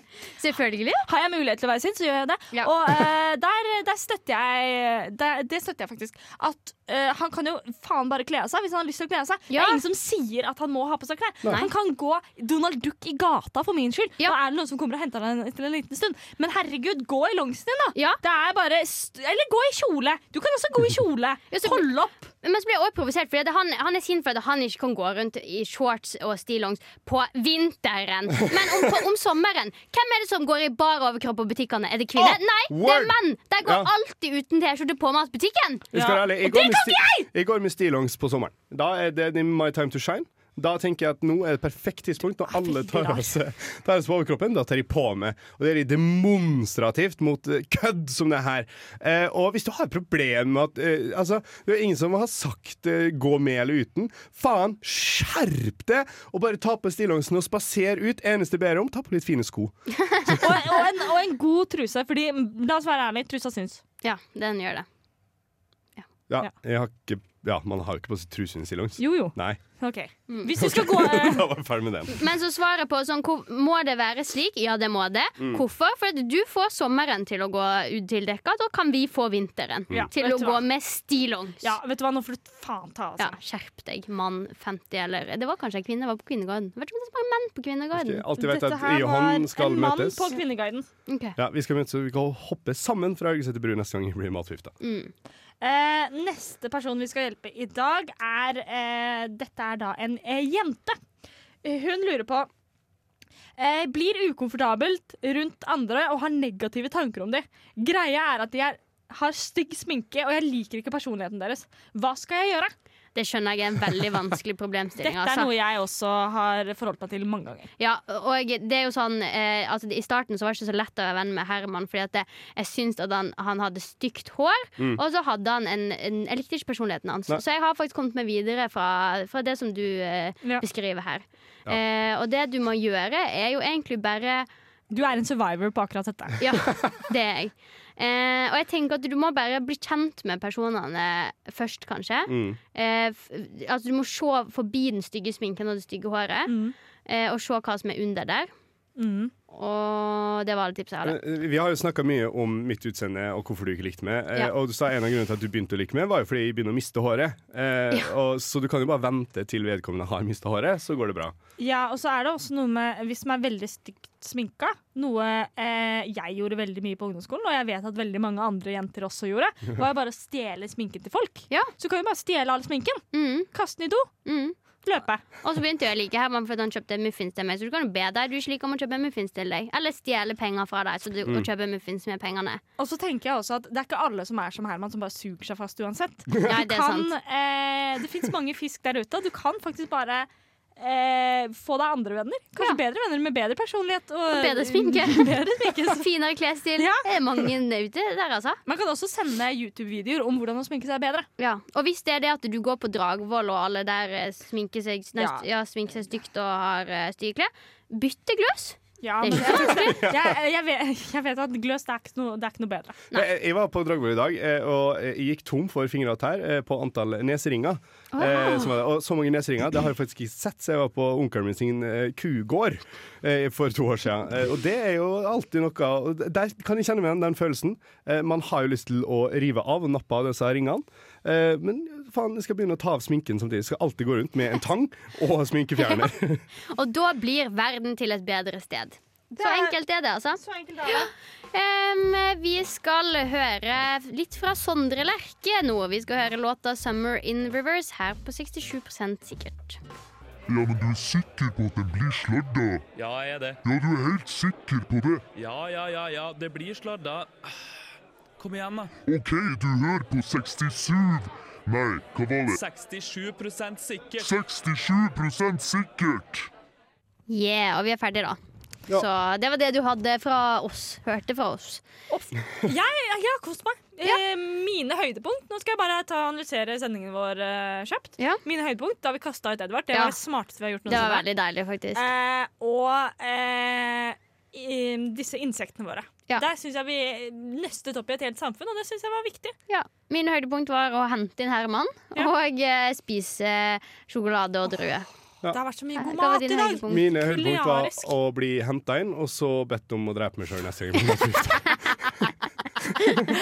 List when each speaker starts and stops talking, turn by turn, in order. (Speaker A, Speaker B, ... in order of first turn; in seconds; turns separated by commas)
Speaker A: 0.4-1.1, Speaker B: 1.1-22.3, Speaker A: 2.5-3.0, Speaker A: 9.5-9.8, Speaker C: 11.4-11.7, Speaker A: 21.5-21.9, Speaker A: 22.4-35.9, Speaker C: 32.2-33.9, Speaker C: 35.9-60.5, Speaker B: 35.9-37.3, Speaker B: 42.5-43.3, Speaker A: 60.0-60.4, Speaker B: 60.4-63.8, Speaker A: 64.0-64.9, Speaker C: 66.3-69.6, Speaker B: 69.0-71.5, Speaker C: 70.6-72.2, Speaker A: 72.1-81.7, Speaker B: 80.0-80.6, Speaker B: 81.6-83.4, Speaker A: 83.2-88.3, Speaker C: 87.9-90.3, Speaker B: 88.4-90.9, Speaker A: 91.1-91.4, Speaker C: 91.4-94.7, Speaker A: 94.8-95.1, Speaker B: 95.6-101.0, Speaker B: 101.6-102.5, Speaker B: 103.6-112.7, Speaker A: 113.2-115.5, Speaker B: 115.0-117.7, Speaker A: 117.8-134.5, Speaker B: 134.9-136.4, Speaker A: 136.4-146.5, Speaker C: 142.3-142.6, Speaker B: 146.5-146.8, Speaker A: 147.1-148.5, Speaker B: 149.0-149.3, Speaker A: 149.5-151.2, Speaker C: 151.0-161.3, Speaker B: 161.6-174.1, Speaker A: 173.1-173.5, Speaker A: 174.2-174.6, Speaker B: 174.8-175.2, Speaker A: 175.4-182.6, Speaker B: 182.8-196.1, Speaker A: 186.4-187.1, Speaker A: 194.3-195.3, Speaker A: 195.9-198.6, Speaker B: 196.8-197.5, Speaker B: 198.7-201.3, Speaker A: 201.4-210.1, Speaker B: 205.2-205.4, Speaker B: 209.0-213.0, Speaker C: 210.0-210.3, Speaker C: 213.1-236.4, Speaker A: 218.1-218.7, Speaker A: 235.8-236.1, Speaker A: 236.7-249.8, Speaker B: 239.3-239.8, Speaker B: 240.4-241.1, Speaker D: 250.5-252.8, Speaker E: 252.9-253.6, Speaker D: 253.6-255.3, Speaker E: 255.3-257.5, Speaker E: 258.4-259.0, Speaker D: 259.1-262.6, Speaker E: 262.5-264.3, Speaker D: 264.2-266.5, Speaker A: 267.3-271.8, Speaker B: 272.1-281.3, Speaker A: 280.9-282.0, Speaker B: 281.9-289.6, Speaker A: 289.7-295.1, Speaker B: 295.5-298.1, Speaker A: 296.0-297.1, Speaker C: 296.9-302.0, Speaker A: 301.6-302.0, Speaker A: 303.0-303.3